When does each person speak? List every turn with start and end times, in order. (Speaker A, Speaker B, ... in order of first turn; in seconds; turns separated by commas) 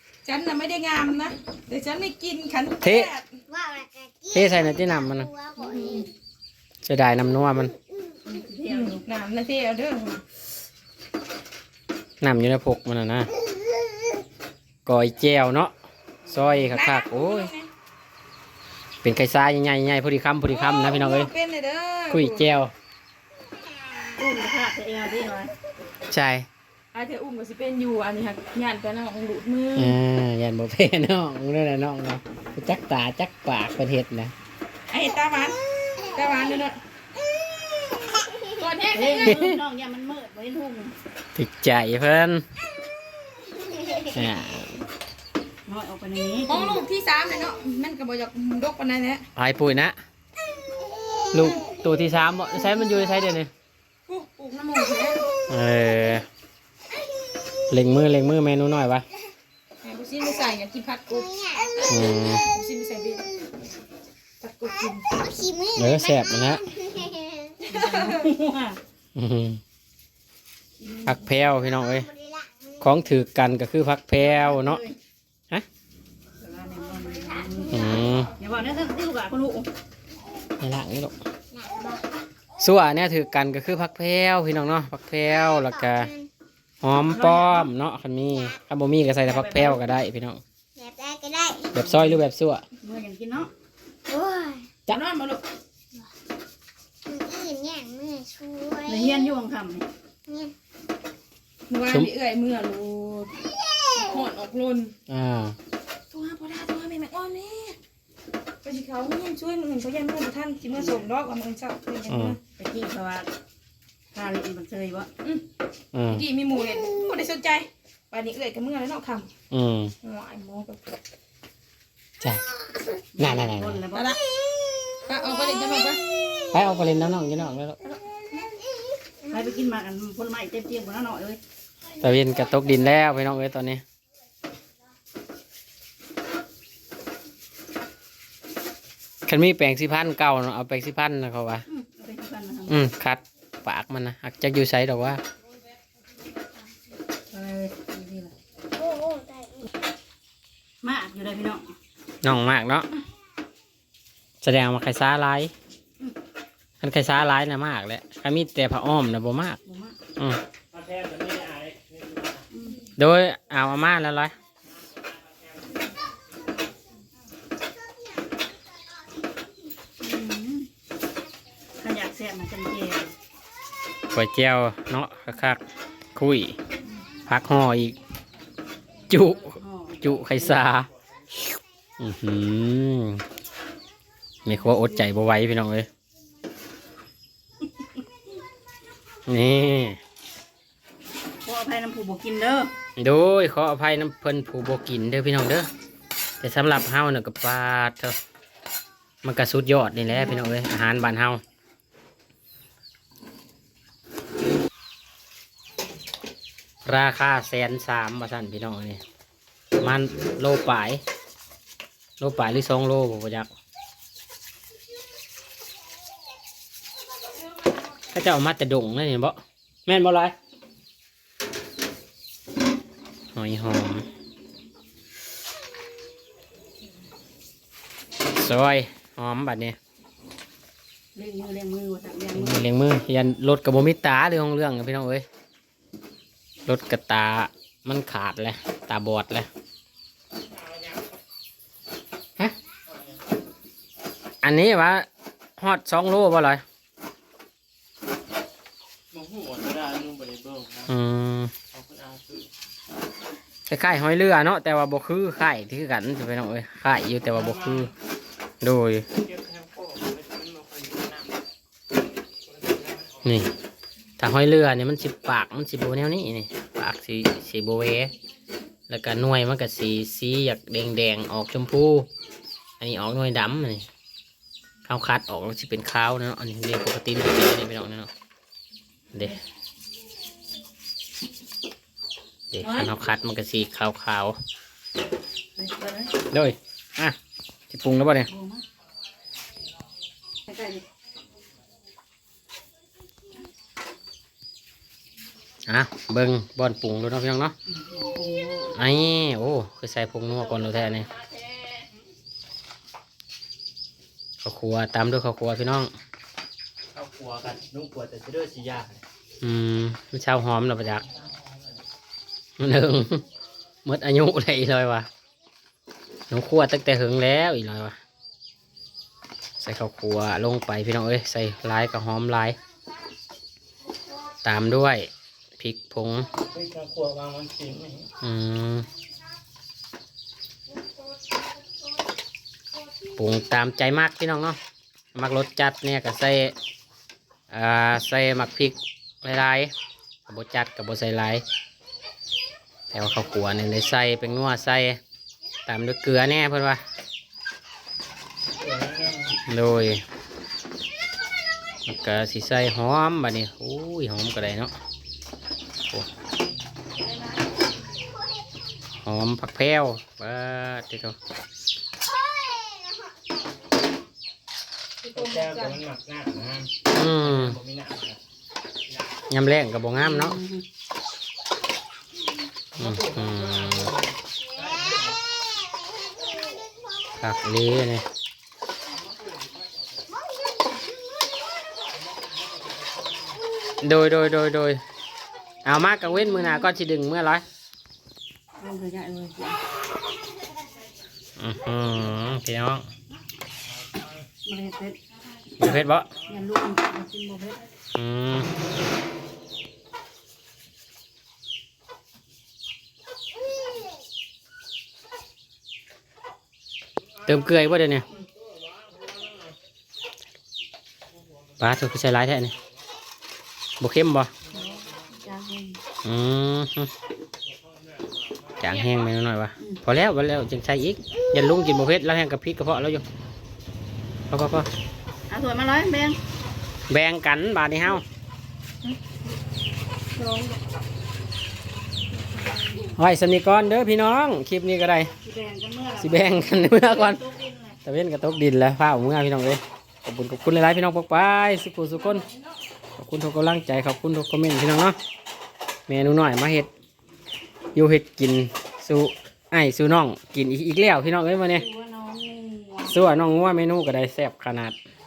Speaker A: 0.2-3.4, Speaker B: 2.8-3.1, Speaker C: 3.5-6.1, Speaker B: 4.3-5.3, Speaker B: 6.8-7.7, Speaker D: 8.3-9.0, Speaker A: 8.6-10.2, Speaker B: 12.2-13.3, Speaker B: 14.8-15.7, Speaker B: 16.3-17.5, Speaker A: 16.6-17.7, Speaker B: 19.0-21.3, Speaker A: 20.5-22.5, Speaker B: 22.1-22.7, Speaker D: 24.1-25.5, Speaker B: 26.1-26.5, Speaker A: 26.9-30.0, Speaker B: 29.7-34.3, Speaker A: 34.9-35.6, Speaker A: 36.1-36.8, Speaker A: 38.5-39.5, Speaker D: 38.9-40.9, Speaker B: 39.2-39.6, Speaker B: 41.3-42.4, Speaker B: 44.1-44.8, Speaker D: 45.6-46.8, Speaker A: 46.5-49.2, Speaker B: 49.4-50.0, Speaker B: 51.3-53.5, Speaker A: 54.1-55.2, Speaker B: 55.5-56.2, Speaker B: 57.7-59.0, Speaker A: 59.8-63.3, Speaker C: 61.3-62.3, Speaker B: 61.9-62.4, Speaker A: 64.4-65.1, Speaker C: 65.1-67.6, Speaker B: 65.7-66.6, Speaker D: 67.7-68.8, Speaker A: 67.7-68.2, Speaker B: 69.1-69.6, Speaker D: 70.8-71.1, Speaker B: 71.0-72.1, Speaker C: 71.6-72.7, Speaker B: 72.8-74.8, Speaker D: 74.2-74.9, Speaker D: 76.4-79.7, Speaker C: 77.5-78.1, Speaker B: 77.7-78.3, Speaker B: 80.6-81.1, Speaker C: 81.5-82.0, Speaker B: 82.6-86.1, Speaker C: 85.3-86.3, Speaker B: 86.8-90.4, Speaker D: 89.2-89.8, Speaker C: 90.8-91.9, Speaker B: 91.7-92.6, Speaker D: 91.9-92.2, Speaker D: 92.8-93.5, Speaker C: 94.1-94.7, Speaker A: 94.9-95.4, Speaker C: 97.0-99.3, Speaker D: 98.8-99.9, Speaker C: 100.3-100.5, Speaker A: 101.7-103.3, Speaker A: 103.9-104.9, Speaker B: 105.1-105.5, Speaker A: 106.1-107.8, Speaker A: 108.6-112.4, Speaker D: 110.7-111.0, Speaker B: 112.1-112.3, Speaker D: 112.6-113.3, Speaker D: 114.1-115.1, Speaker B: 115.9-116.2, Speaker A: 116.1-119.3, Speaker B: 119.5-119.9, Speaker A: 120.0-120.8, Speaker D: 123.2-124.1, Speaker B: 123.2-123.8, Speaker A: 123.9-124.2, Speaker A: 125.0-126.0, Speaker B: 126.5-127.8, Speaker D: 129.3-131.4, Speaker B: 132.0-133.8, Speaker B: 139.2-141.6, Speaker D: 141.7-142.8, Speaker B: 142.7-145.2, Speaker D: 147.3-148.3, Speaker C: 148.8-149.6, Speaker D: 150.8-151.7, Speaker B: 152.2-152.9, Speaker B: 154.4-155.5, Speaker B: 156.8-159.6, Speaker D: 159.6-160.0, Speaker E: 160.7-162.5, Speaker D: 162.5-162.8, Speaker B: 163.0-164.3, Speaker E: 164.7-165.9, Speaker D: 170.0-170.7, Speaker D: 171.8-173.1, Speaker B: 174.1-175.6, Speaker B: 176.1-176.6, Speaker B: 177.3-178.0, Speaker B: 179.1-180.9, Speaker D: 179.4-180.2, Speaker B: 182.0-183.2, Speaker B: 184.4-185.9, Speaker B: 189.3-190.0, Speaker D: 191.4-192.7, Speaker B: 193.0-195.7, Speaker B: 196.4-198.1, Speaker B: 199.2-201.4, Speaker D: 200.1-200.4, Speaker B: 206.8-209.0, Speaker B: 209.8-211.0, Speaker B: 212.2-213.5, Speaker B: 218.1-220.3, Speaker B: 223.3-224.1, Speaker B: 228.2-229.8, Speaker D: 231.1-232.6, Speaker B: 232.3-235.2, Speaker B: 236.7-239.5, Speaker E: 240.6-240.9, Speaker B: 244.4-245.1, Speaker B: 245.6-246.6, Speaker E: 249.1-250.9, Speaker B: 250.9-251.5, Speaker E: 251.7-252.5, Speaker B: 253.7-257.9, Speaker E: 257.3-257.9, Speaker B: 258.6-259.0, Speaker E: 259.1-261.3, Speaker E: 262.5-263.1, Speaker B: 263.2-263.5, Speaker B: 264.2-268.1, Speaker B: 268.9-272.1, Speaker B: 272.8-273.9, Speaker B: 274.9-278.1, Speaker B: 282.5-284.4, Speaker D: 282.6-282.9, Speaker D: 285.6-286.1, Speaker B: 286.3-287.1, Speaker B: 287.7-288.3, Speaker D: 288.3-288.6, Speaker D: 290.5-290.8, Speaker B: 295.7-297.5, Speaker D: 297.7-298.8, Speaker B: 298.7-301.1, Speaker B: 304.4-305.9, Speaker E: 306.9-309.0, Speaker B: 309.4-311.0, Speaker B: 312.6-313.2, Speaker B: 313.8-315.1, Speaker B: 316.3-317.9, Speaker B: 319.6-322.6, Speaker B: 324.4-326.3, Speaker E: 326.4-328.1, Speaker B: 328.2-328.9, Speaker B: 333.1-334.6, Speaker B: 335.1-336.5, Speaker B: 337.5-339.7, Speaker B: 340.3-341.4, Speaker B: 342.9-345.0, Speaker B: 345.6-346.8, Speaker E: 348.6-349.4, Speaker B: 349.5-350.0, Speaker B: 351.9-354.7, Speaker B: 359.0-361.1, Speaker A: 365.0-365.8, Speaker E: 365.1-368.2, Speaker B: 366.9-367.6, Speaker B: 369.3-370.4, Speaker D: 370.0-370.6, Speaker E: 372.7-375.1, Speaker B: 372.8-373.9, Speaker B: 377.2-378.0, Speaker B: 383.8-384.8, Speaker B: 385.6-387.4, Speaker D: 388.6-389.6, Speaker B: 391.4-392.8, Speaker D: 394.4-395.0, Speaker B: 395.6-396.1, Speaker D: 395.6-397.6, Speaker B: 397.9-398.5, Speaker B: 407.2-408.1, Speaker B: 411.6-412.5, Speaker B: 413.8-414.3, Speaker D: 414.5-415.8, Speaker B: 416.0-416.9, Speaker E: 418.6-419.0, Speaker B: 418.6-423.0, Speaker B: 424.3-424.7, Speaker D: 425.3-426.2, Speaker B: 426.9-428.0, Speaker A: 430.1-430.6, Speaker A: 432.3-432.9, Speaker B: 432.9-435.1, Speaker D: 435.2-437.8, Speaker B: 436.0-437.2, Speaker B: 437.8-442.2, Speaker A: 441.9-442.6, Speaker B: 443.0-444.9, Speaker B: 445.9-446.7, Speaker B: 447.7-451.6, Speaker D: 451.5-453.0, Speaker B: 452.9-454.8